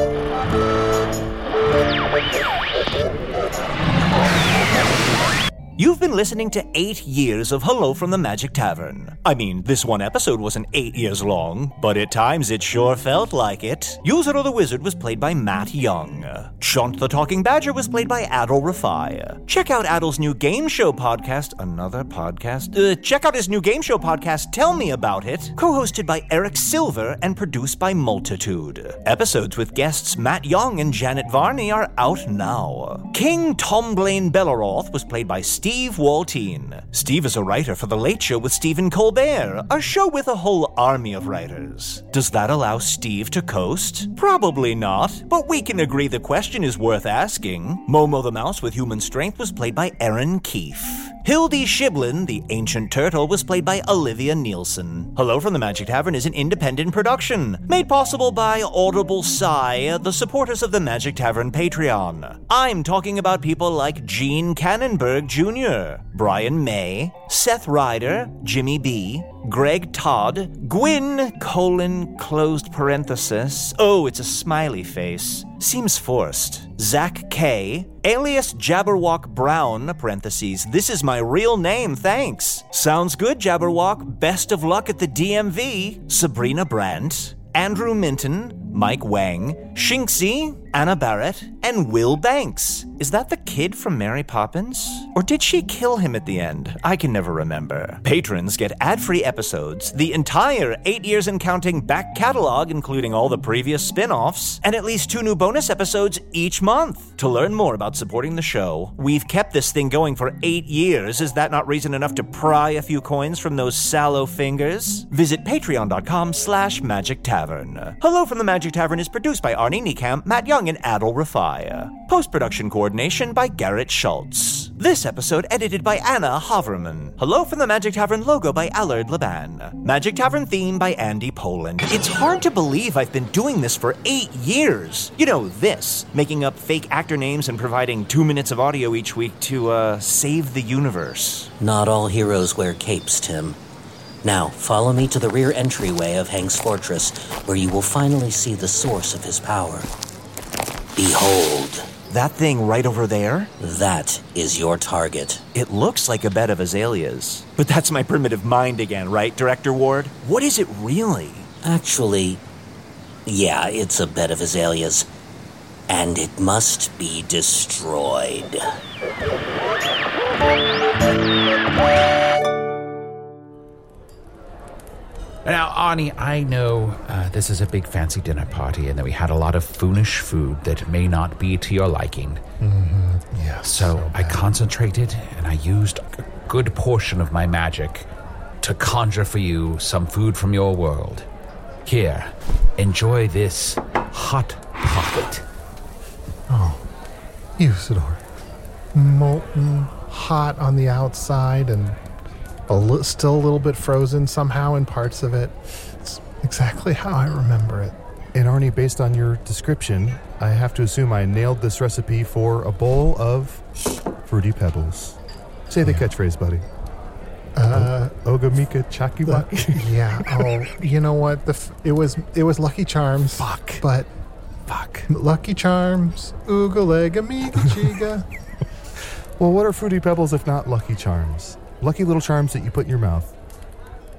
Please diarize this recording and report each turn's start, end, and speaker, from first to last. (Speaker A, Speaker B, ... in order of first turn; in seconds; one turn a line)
Speaker A: 5.8-141.5
Speaker B: 141.6-143.6
Speaker B: 144.2-149.9
Speaker B: 151.0-151.9
Speaker A: 152.1-153.5
Speaker B: 153.6-155.4
Speaker A: 155.5-161.5
Speaker B: 161.6-162.4
Speaker B: 163.3-165.1
Speaker B: 165.9-168.6
Speaker C: 175.4-182.4
Speaker D: 182.6-184.5
Speaker C: 183.7-188.1
Speaker C: 188.6-191.3
Speaker C: 191.8-195.4
Speaker D: 196.5-196.8
Speaker D: 197.6-198.2
Speaker D: 198.9-202.0
Speaker D: 202.7-208.0
Speaker E: 208.3-213.6
Speaker E: 214.3-215.2
Speaker E: 215.7-216.7
Speaker D: 217.6-218.2
Speaker E: 217.7-220.5
Speaker D: 219.3-224.1
Speaker E: 223.4-223.8
Speaker E: 224.7-225.1
Speaker D: 225.1-228.2
Speaker E: 229.4-233.3